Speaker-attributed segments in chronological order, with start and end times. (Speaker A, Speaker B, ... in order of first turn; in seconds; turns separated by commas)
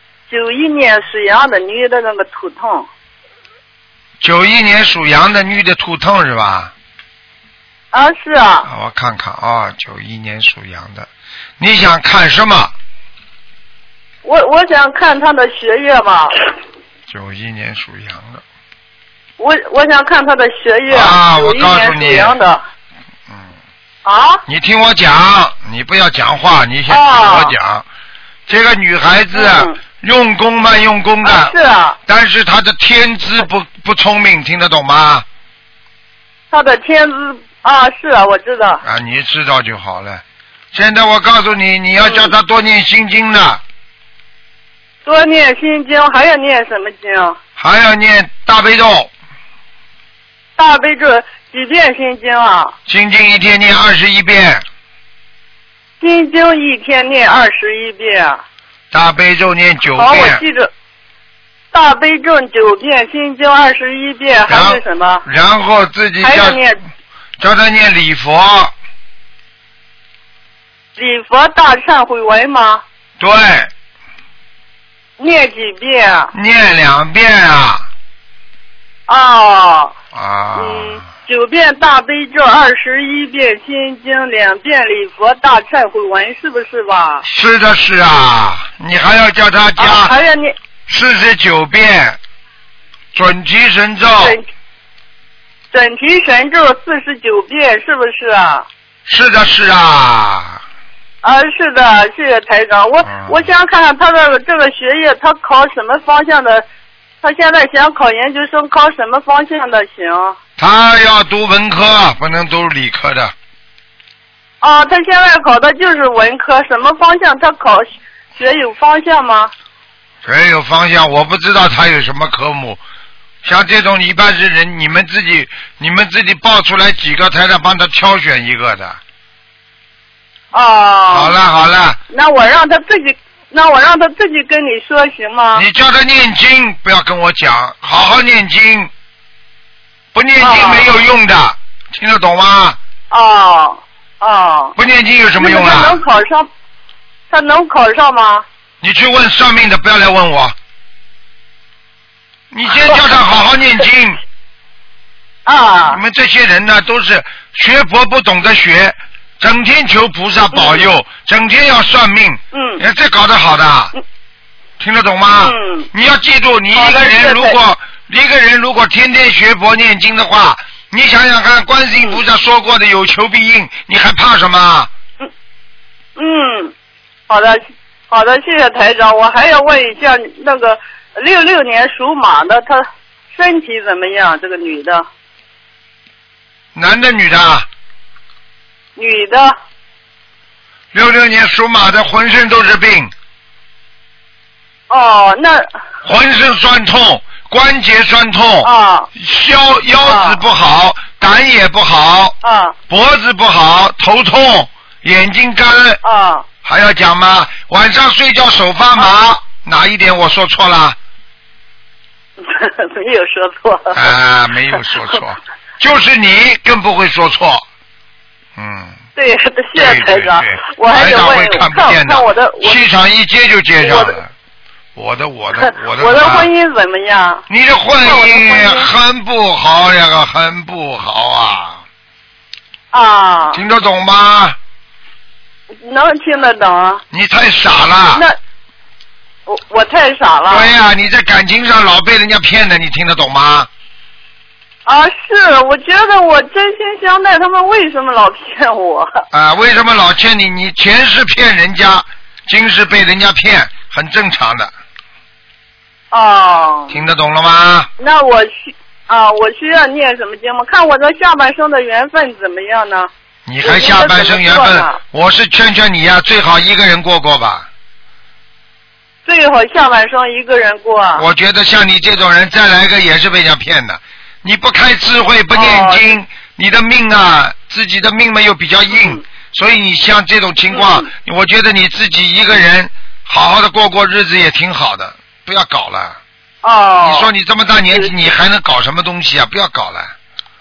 Speaker A: 0.3-2.9, Speaker B: 4.2-6.7, Speaker A: 7.9-8.7, Speaker B: 8.6-12.7, Speaker A: 14.2-16.4, Speaker B: 17.1-18.4, Speaker A: 19.4-22.6, Speaker B: 20.9-22.3, Speaker A: 24.0-24.4, Speaker B: 24.5-27.9, Speaker A: 26.9-27.5, Speaker B: 28.5-31.5, Speaker A: 29.4-29.7, Speaker A: 31.2-32.0, Speaker B: 32.1-35.2, Speaker A: 36.5-38.8, Speaker B: 38.8-40.2, Speaker B: 40.7-43.6, Speaker A: 42.0-42.3, Speaker A: 45.0-47.4, Speaker B: 47.6-49.1, Speaker A: 50.6-52.7, Speaker B: 52.9-54.6, Speaker A: 56.0-58.4, Speaker B: 58.9-60.4, Speaker A: 60.0-60.7, Speaker A: 61.7-65.2, Speaker B: 64.5-66.6, Speaker A: 66.2-66.8, Speaker B: 67.4-68.7, Speaker A: 71.0-72.8, Speaker B: 73.2-73.7, Speaker A: 75.2-76.3, Speaker B: 76.3-77.9, Speaker A: 79.1-79.9, Speaker B: 80.1-81.1, Speaker A: 80.5-87.2, Speaker B: 87.2-90.1, Speaker A: 89.8-90.5, Speaker B: 90.8-92.2, Speaker B: 93.1-94.4, Speaker A: 94.2-94.4, Speaker A: 95.7-98.7, Speaker B: 99.0-100.6, Speaker A: 101.2-106.7, Speaker B: 103.0-103.5, Speaker A: 107.2-110.3, Speaker B: 110.6-113.3, Speaker A: 114.6-119.5, Speaker B: 120.2-122.8, Speaker B: 123.4-129.0, Speaker A: 130.5-131.3, Speaker B: 131.1-132.0, Speaker A: 132.1-135.6, Speaker B: 135.5-138.9, Speaker B: 140.1-142.8, Speaker A: 140.4-140.9, Speaker A: 143.1-144.7, Speaker B: 144.8-146.0, Speaker A: 145.4-146.5, Speaker A: 147.3-148.4, Speaker B: 148.8-150.5, Speaker B: 152.5-154.2, Speaker A: 155.4-156.0, Speaker B: 155.9-163.9, Speaker A: 160.5-160.8, Speaker A: 162.5-162.8, Speaker B: 164.8-174.9, Speaker A: 165.4-165.9, Speaker A: 166.7-167.6, Speaker A: 176.2-176.7, Speaker A: 177.3-185.1, Speaker B: 186.7-187.7, Speaker A: 188.9-189.6, Speaker B: 190.9-193.1, Speaker A: 194.9-195.7, Speaker B: 196.0-202.3, Speaker A: 198.6-199.1, Speaker A: 200.0-200.4, Speaker A: 202.4-202.7, Speaker B: 202.9-206.0, Speaker A: 206.0-206.4, Speaker B: 206.6-211.0, Speaker A: 212.4-214.1, Speaker B: 213.9-217.6, Speaker B: 218.6-219.0, Speaker A: 219.2-222.8, Speaker B: 219.7-224.3, Speaker A: 223.8-224.2, Speaker B: 224.9-226.5, Speaker A: 225.6-227.4, Speaker B: 227.5-231.8, Speaker A: 228.0-228.9, Speaker A: 232.9-233.6, Speaker B: 233.5-234.6, Speaker A: 235.8-237.0, Speaker B: 237.1-238.2, Speaker A: 239.4-240.7, Speaker B: 240.5-243.7, Speaker A: 244.8-249.2, Speaker B: 249.3-254.7, Speaker A: 256.1-257.0, Speaker B: 256.9-257.9, Speaker A: 258.0-263.1, Speaker B: 263.5-267.7, Speaker A: 263.6-265.0, Speaker A: 269.2-271.2, Speaker B: 271.2-286.2, Speaker A: 275.5-276.1, Speaker A: 278.9-279.2, Speaker A: 280.7-281.1, Speaker A: 286.6-287.3, Speaker B: 287.0-290.1